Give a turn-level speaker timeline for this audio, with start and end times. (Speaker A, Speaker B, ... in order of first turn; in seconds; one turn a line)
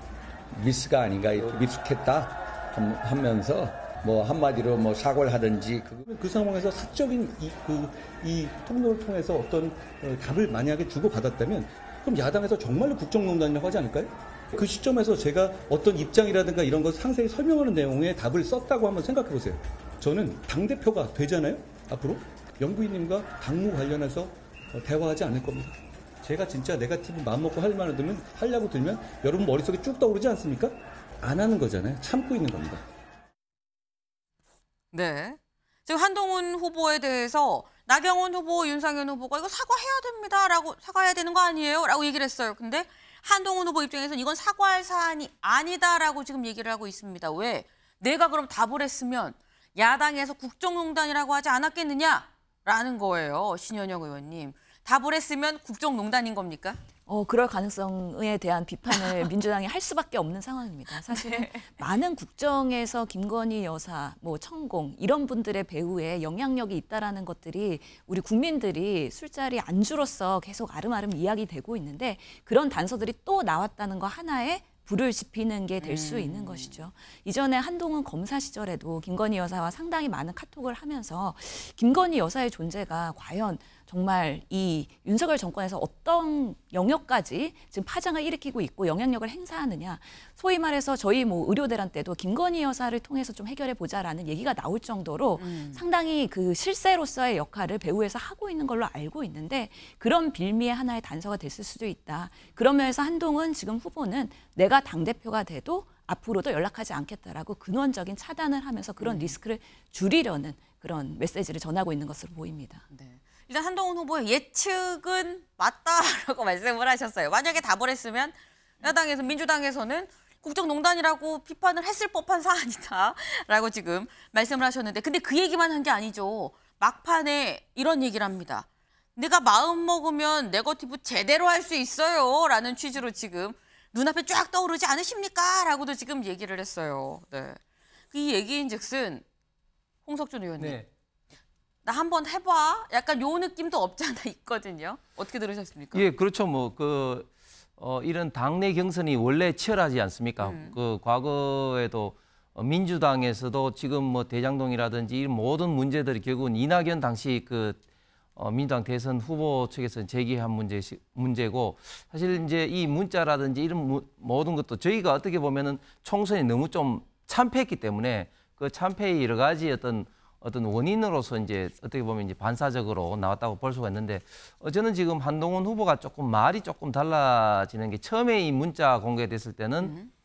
Speaker A: 0.5-6.0
Speaker B: 6.0-32.8
Speaker C: 34.9-56.8
Speaker D: 57.1-112.8
Speaker C: 58.9-59.2
Speaker C: 61.1-61.6
Speaker C: 75.8-76.7
Speaker C: 95.4-95.8
Speaker C: 109.0-109.3
Speaker C: 112.9-137.6
Speaker C: 138.1-139.2
Speaker C: 140.1-140.8
Speaker E: 140.6-140.8
Speaker C: 141.8-146.0
Speaker E: 145.9-157.8
Speaker C: 150.4-150.8
Speaker E: 158.3-179.9
Speaker C: 179.8-180.1